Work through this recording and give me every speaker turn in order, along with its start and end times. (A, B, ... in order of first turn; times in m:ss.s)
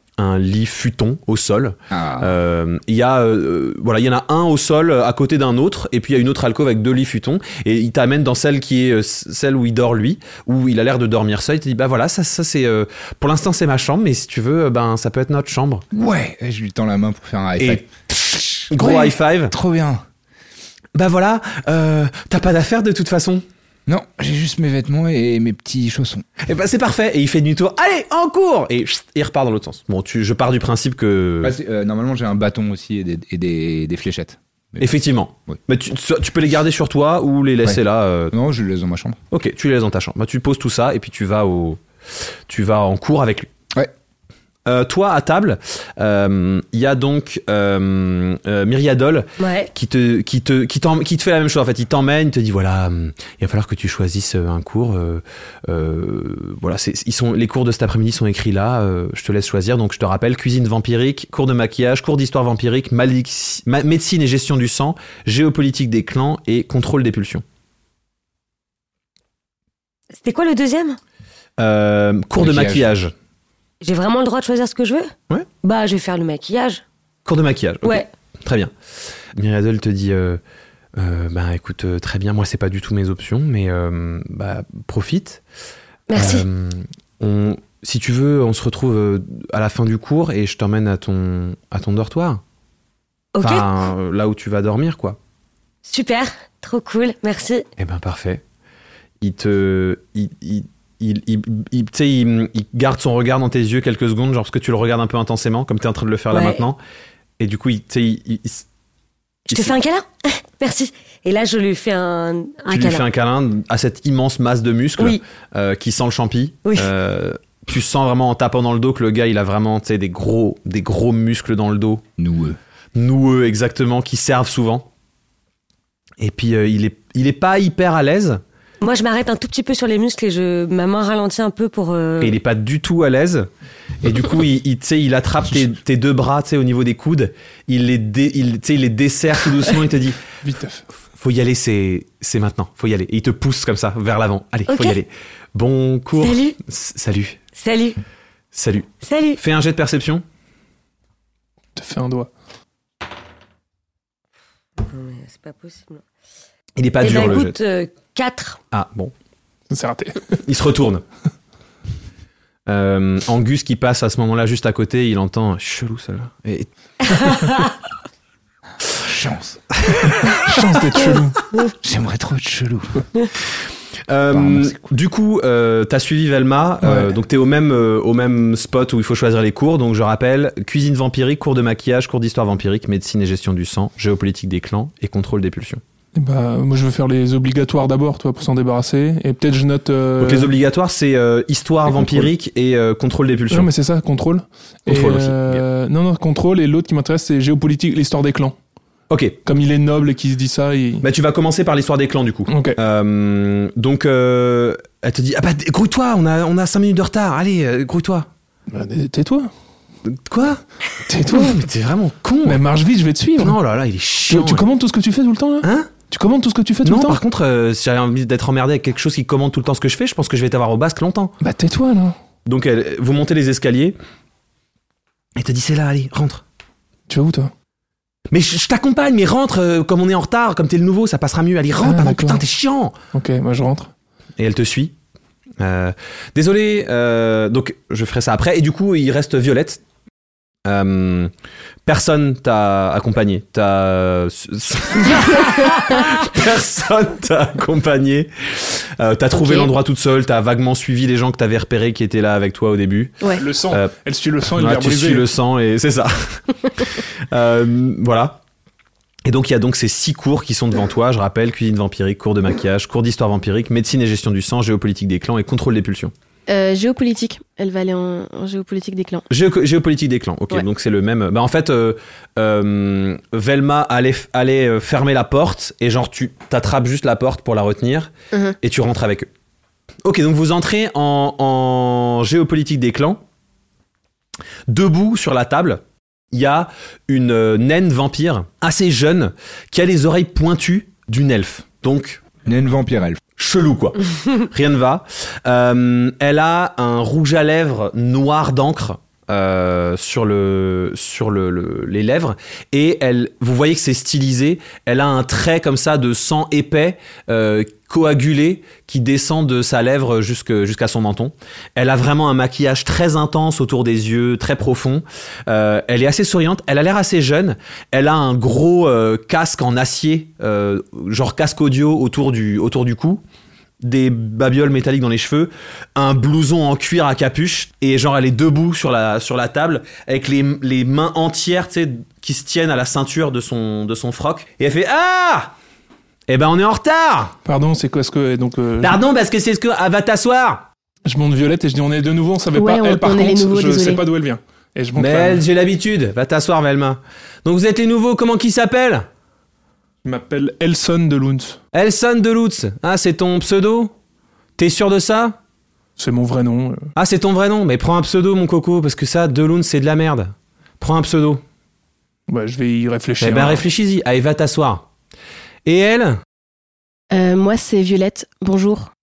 0:00.2-0:15.8 A
0:01.9-0:02.3 B
0:15.9-0:20.0 B
0:17.6-0:17.8 A
0:18.6-0:19.5 A
0:20.9-0:23.4 A
0:23.9-0:26.2 B
0:26.4-0:31.5 A
0:31.4-0:34.9 B
0:34.8-0:38.3 A
0:37.6-0:39.2 B
0:39.3-0:41.8 A
0:42.5-0:43.5 A
0:44.6-1:07.4 A
0:49.4-0:49.7 C
1:10.1-1:11.0 C
1:11.6-1:13.1 A
1:12.4-1:12.9 B
1:13.8-1:16.8 C
1:17.2-1:18.7 A
1:19.3-1:20.4 A
1:21.0-1:25.4 A
1:26.1-1:26.4 C
1:26.1-1:32.4 A
1:33.3-1:33.7 C
1:33.4-1:35.2 A
1:35.8-1:37.7 C
1:37.8-1:38.4 A
1:39.2-1:46.8 A
1:46.3-1:46.6 C
1:47.4-1:48.6 A
1:49.5-1:53.0 C
1:49.5-1:49.8 A
1:52.7-2:02.0 A
2:02.2-2:02.6 B
2:02.9-2:04.9 A
2:06.2-2:08.4 A
2:08.8-2:12.4 C
2:12.2-2:13.5 A
2:14.0-2:20.2 A
2:20.4-2:20.8 D
2:21.2-2:27.4 A
2:24.7-2:25.0 C
2:26.2-2:26.6 C
2:27.6-2:28.0 C
2:28.5-2:30.2 A
2:29.0-2:29.4 C
2:31.7-2:32.3 D
2:34.8-2:36.0 C
2:36.8-2:37.6 A
2:37.0-2:38.6 C
2:38.7-2:39.1 A
2:39.7-2:40.4 D
2:40.4-2:41.0 A
2:42.7-2:47.4 A
2:49.0-2:49.6 B
2:49.9-2:50.3 A
2:50.3-2:51.4 D
2:51.8-2:53.0 B
2:54.1-3:05.8 A
2:54.3-2:54.9 B
3:06.1-3:10.5 D
3:10.2-3:13.7 A
3:11.9-3:12.3 D
3:13.5-3:18.6 D
3:14.8-3:15.6 A
3:19.1-3:19.4 A
3:19.4-3:21.0 D
3:21.0-3:28.3 A
3:22.5-3:22.8 D
3:28.7-3:29.5 D
3:30.1-3:30.6 A
3:31.1-3:31.6 D
3:31.2-3:32.6 A
3:32.4-3:33.6 D
3:33.4-3:34.7 A
3:34.3-3:37.2 D
3:35.6-3:35.9 A
3:36.8-3:41.3 A
3:41.4-3:42.2 D
3:42.4-3:44.0 A
3:45.4-3:46.4 A
3:47.1-3:47.5 D
3:48.3-3:53.0 A
3:51.8-3:52.4 D
3:53.1-3:53.9 D
3:54.4-3:54.9 A
3:55.6-3:59.8 A
4:00.6-4:01.3 A
4:01.8-4:13.9 A
4:13.4-4:15.3 D
4:14.5-4:18.4 A
4:19.2-4:26.1 A
4:26.5-4:29.2 E
4:29.3-4:39.3 A
4:38.3-4:38.6 E
4:40.0-4:43.2 A
4:44.7-4:52.2 A
4:52.4-4:53.2 B
4:53.4-5:23.2 A
5:23.8-5:35.5 A
5:36.3-5:37.4 A
5:37.4-5:39.0 D
5:38.8-5:40.6 A
5:41.0-5:45.4 D
5:42.5-5:44.0 E
5:45.0-5:49.1 A
5:50.0-5:51.6 D
5:51.7-5:53.9 A
5:54.6-5:55.4 A
5:56.0-5:56.9 D
5:57.0-6:01.4 A
6:02.3-6:03.7 D
6:03.2-6:04.8 A
6:05.6-6:06.2 A
6:07.1-6:08.9 E